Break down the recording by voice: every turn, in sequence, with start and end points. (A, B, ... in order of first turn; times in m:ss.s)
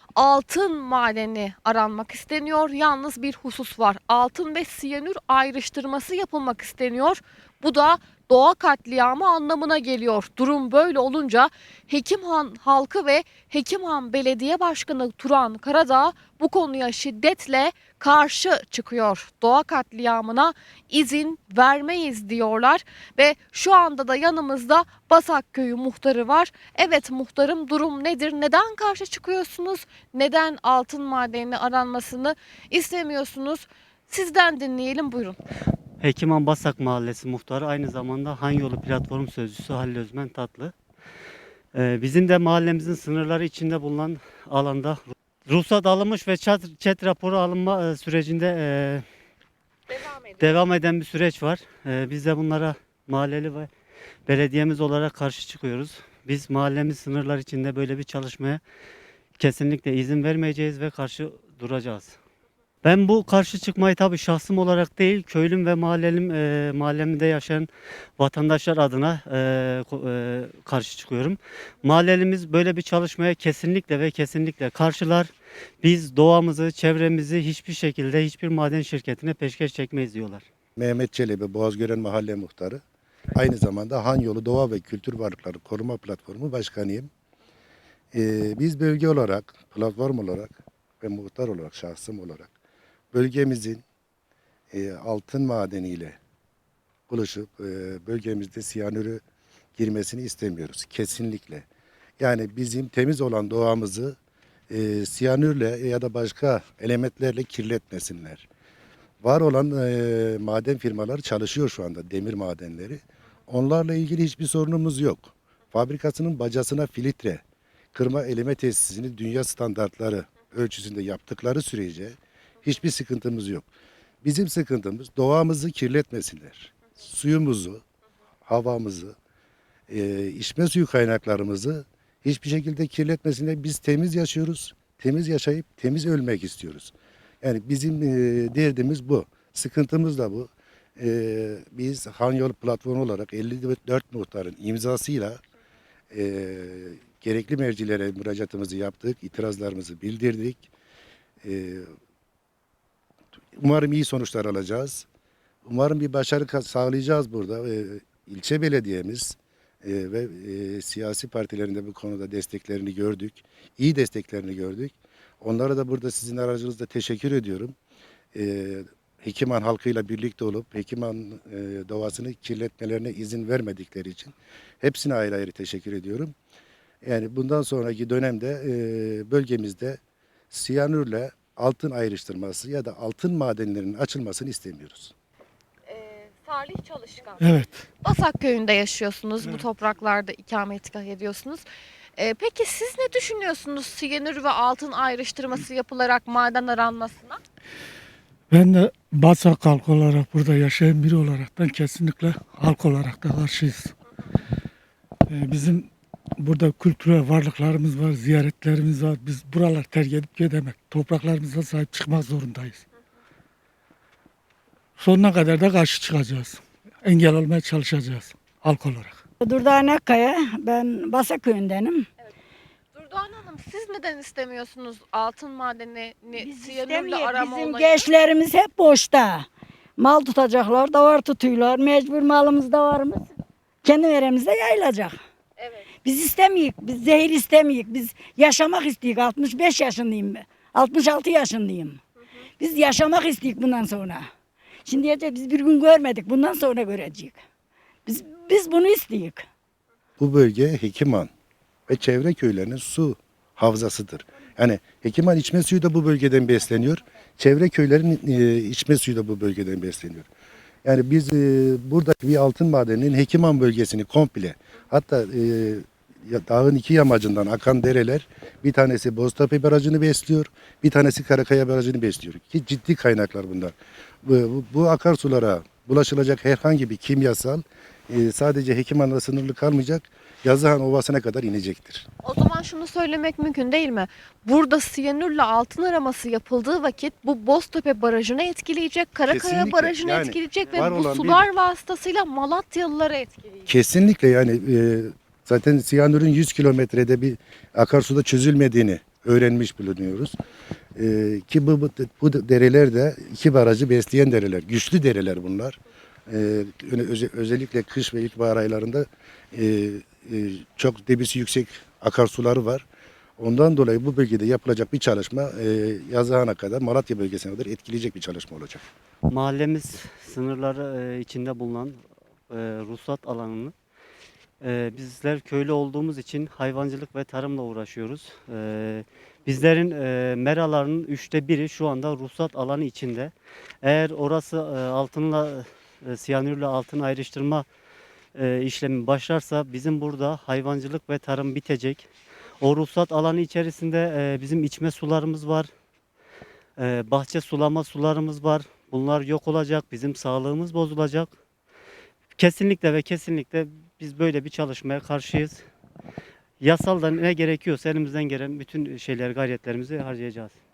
0:00.2-0:35.4 A
0:36.0-0:40.7 B
0:41.7-0:49.0 B
0:50.3-0:53.7 B
0:54.2-0:58.6 B
0:59.4-1:02.2 B
1:02.8-1:15.3 B
1:15.8-1:20.4 B
1:20.8-1:22.8 C
1:23.3-1:27.1 C
1:28.1-1:32.5 C
1:33.1-1:33.8 C
1:34.7-1:36.2 C
1:37.1-1:39.2 C
1:39.8-1:41.6 C
1:42.2-1:44.2 C
1:44.7-1:48.5 C
1:49.2-1:57.4 C
1:57.9-2:03.7 C
2:04.2-2:07.8 C
2:08.4-2:09.1 C
2:09.9-2:25.4 C
2:26.1-2:30.7 C
2:31.4-2:31.9 C
2:33.6-2:35.0 C
2:35.6-2:47.8 C
2:48.3-2:56.3 C
2:57.0-3:00.0 C
3:00.5-3:05.1 C
3:05.9-3:07.5 A
3:07.4-3:07.8 D
3:08.0-3:11.6 A
3:12.2-3:17.4 A
3:18.5-3:23.9 D
3:25.3-3:32.8 D
3:35.0-3:39.2 D
3:39.4-3:42.1 E
3:42.9-3:48.0 A
3:46.4-3:49.5 E
3:50.0-3:53.3 E
3:53.8-3:55.2 E
3:56.0-4:02.0 E
4:02.6-4:04.3 E
4:04.8-4:07.4 E
4:08.0-4:09.4 E
4:10.2-4:11.3 C
4:11.9-4:20.3 C
4:20.8-4:42.0 C
4:42.2-4:53.7 A
4:49.3-4:51.4 C
4:50.7-4:50.9 B
4:53.7-5:00.3 C
5:01.0-5:12.8 C
5:13.4-5:18.8 C
5:19.3-5:23.7 B
5:24.6-5:33.3 B
5:33.8-5:37.6 B
5:38.4-5:42.1 B
5:42.6-5:45.7 B
5:46.8-5:51.3 B
5:52.4-5:55.6 B
5:56.6-6:00.6 B